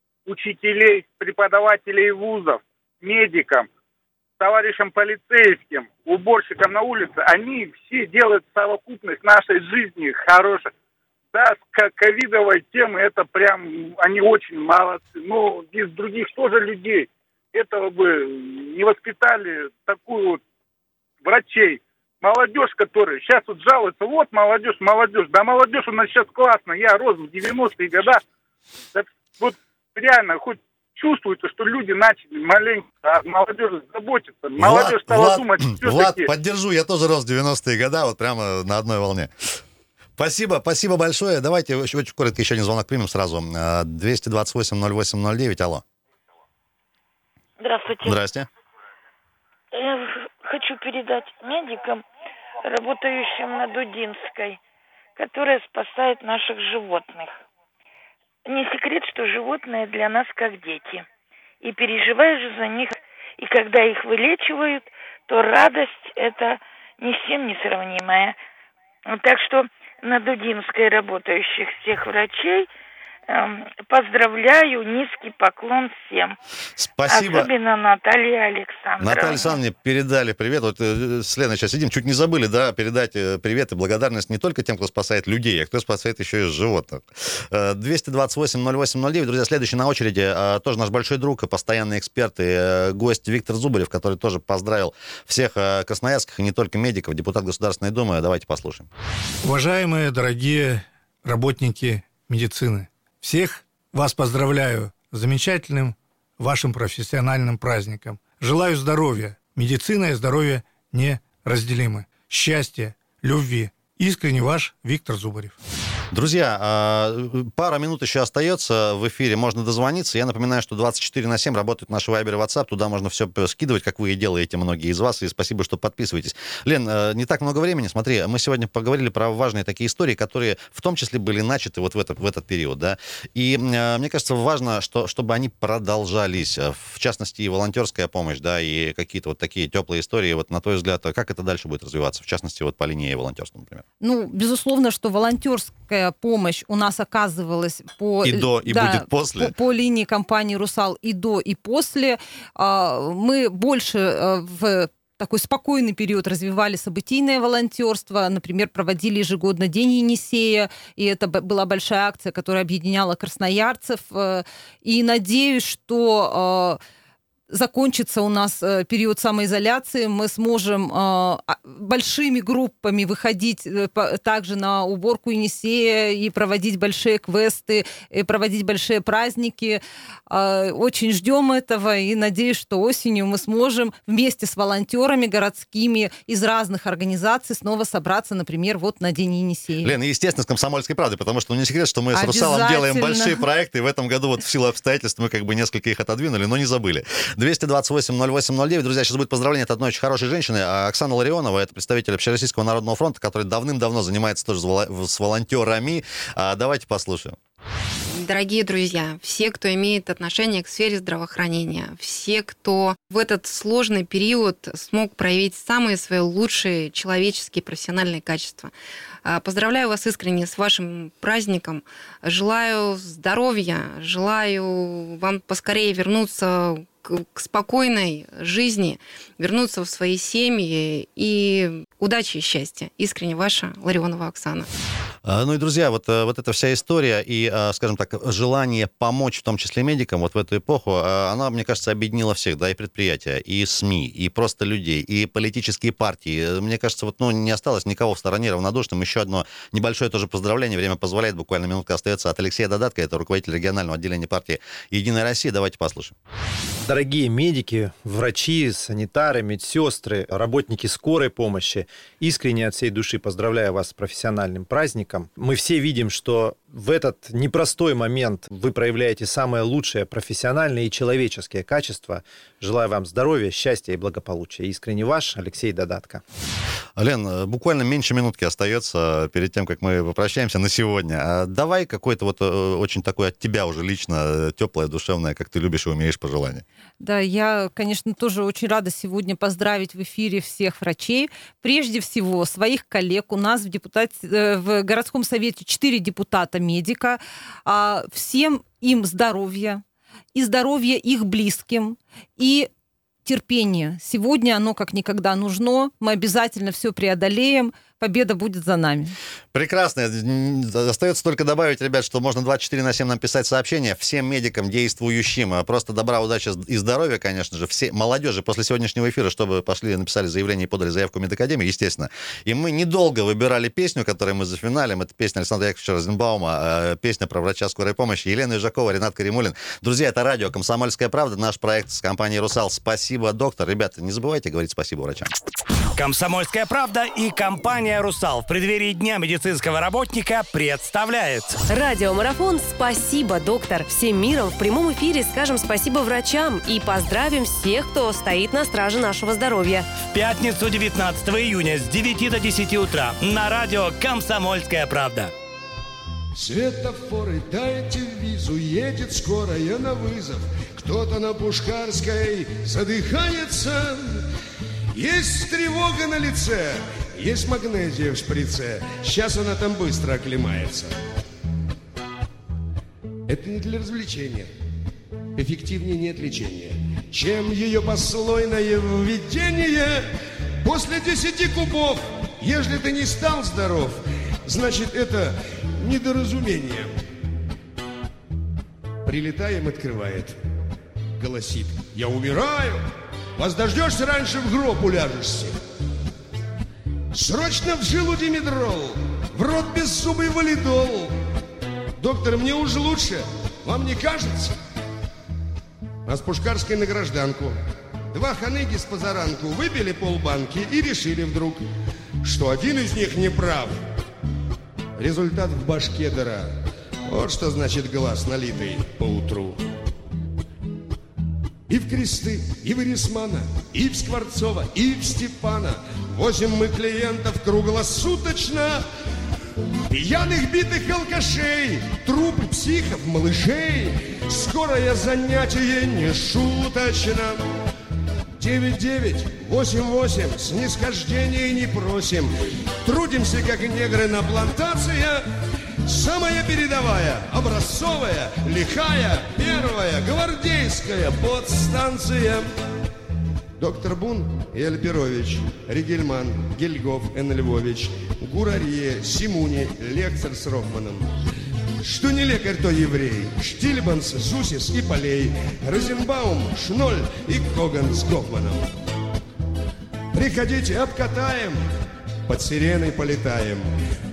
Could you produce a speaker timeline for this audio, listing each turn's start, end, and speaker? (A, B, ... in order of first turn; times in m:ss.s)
0:00.3-0:03.7 A
0:04.4-0:10.7 A
0:11.3-0:20.4 A
0:21.2-0:28.2 A
0:28.9-0:36.3 A
0:34.6-0:39.6 B
0:40.2-0:45.8 B
0:47.6-0:48.2 C
0:48.0-0:48.5 B
0:49.7-0:52.0 C
0:52.6-0:54.6 C
0:55.2-0:57.4 C
0:58.5-1:01.1 C
1:01.6-1:08.4 C
1:09.1-1:12.7 C
1:13.3-1:16.4 C
1:16.8-1:17.5 B
1:17.1-1:19.6 C
1:19.0-1:38.9 B
1:39.4-1:55.6 D
1:56.1-2:23.8 B
2:24.0-2:46.8 E
2:28.2-2:29.5 B
2:47.5-3:09.9 E
3:09.8-3:27.4 B
3:12.1-3:13.4 E
3:28.1-3:38.7 F
3:39.2-3:54.7 F
3:55.2-4:16.2 B
4:16.8-4:36.2 G
4:37.0-4:46.6 B
4:47.0-4:59.8 E
5:00.4-5:02.7 E
5:03.2-5:09.2 E
5:09.5-5:35.3 B
5:36.0-5:41.6 H
5:41.7-5:49.9 I
5:50.0-5:55.3 H
5:56.4-6:04.2 J
6:04.9-6:11.0 J
6:13.3-6:14.5 J
6:15.4-6:20.1 J
6:20.6-6:27.0 J
6:29.0-6:30.4 J
6:31.2-6:32.9 J
6:33.4-6:35.6 J
6:37.1-6:41.2 J
6:42.0-6:44.6 J
6:46.1-6:51.6 J
6:52.2-6:53.8 J
6:55.0-6:59.6 J
7:01.7-7:08.8 J
7:09.9-7:17.4 J
7:18.4-7:25.3 J
7:25.8-7:32.5 J
7:33.6-7:41.2 J
7:41.8-7:48.7 J
7:50.1-7:51.7 J
7:52.3-7:53.7 J